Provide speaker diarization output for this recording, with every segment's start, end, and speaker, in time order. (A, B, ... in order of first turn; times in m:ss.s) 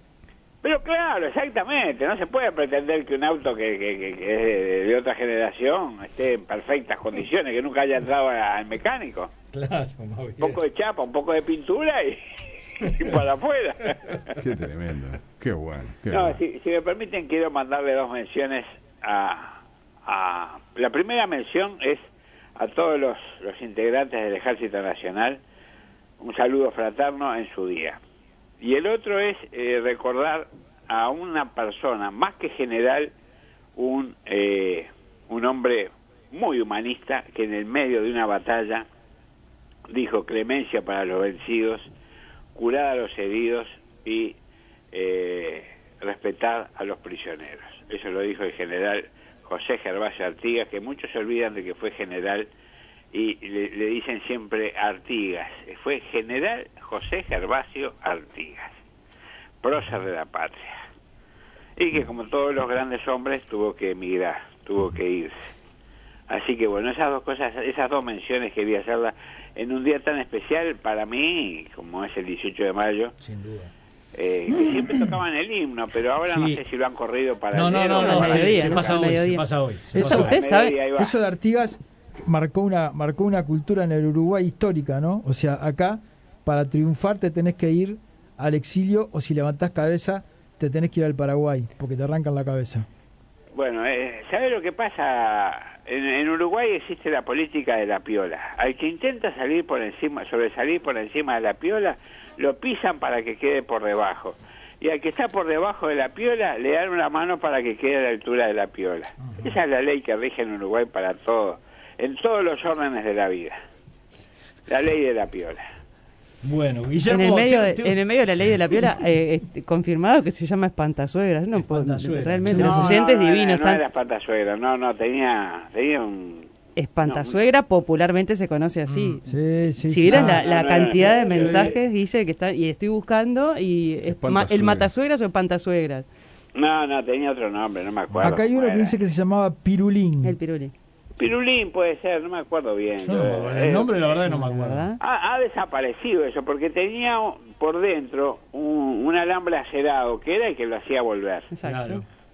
0:00.6-0:09.3 A
0:09.5-0:10.6 B
0:10.4-0:12.2 A
0:12.8-0:14.2 A
0:14.4-0:16.4 C
0:16.1-0:22.0 A
0:22.6-0:25.4 A
0:26.2-0:28.0 A
0:28.6-0:33.1 A
0:33.8-0:38.9 A
0:39.9-0:41.9 A
0:42.5-0:44.4 A
0:44.9-0:52.5 A
0:53.1-0:58.8 A
0:59.6-1:00.8 A
1:01.8-1:05.5 A
1:06.3-1:13.1 A
1:13.2-1:13.7 B
1:14.1-1:19.2 A
1:16.2-1:16.6 B
1:17.5-1:20.3 B
1:18.0-1:19.4 D
1:19.9-1:20.3 E
1:20.0-1:21.2 A
1:20.1-1:20.8 D
1:21.0-1:32.8 E
1:33.5-1:53.6 A
1:54.7-1:55.6 A
1:56.4-1:58.5 B
1:57.0-2:03.8 D
2:01.5-2:03.0 B
2:02.5-2:06.5 A
2:06.8-2:09.2 D
2:07.0-2:07.4 A
2:08.9-2:09.2 B
2:09.2-2:10.4 E
2:09.8-2:16.1 D
2:10.2-2:11.7 A
2:11.2-2:11.7 B
2:14.0-2:14.9 C
2:16.5-2:19.0 A
2:18.2-2:20.4 E
2:20.2-2:20.7 D
2:21.2-2:24.2 A
2:23.0-2:24.9 B
2:24.2-2:25.0 D
2:25.0-2:31.5 A
2:31.5-2:32.0 D
2:31.6-2:32.0 B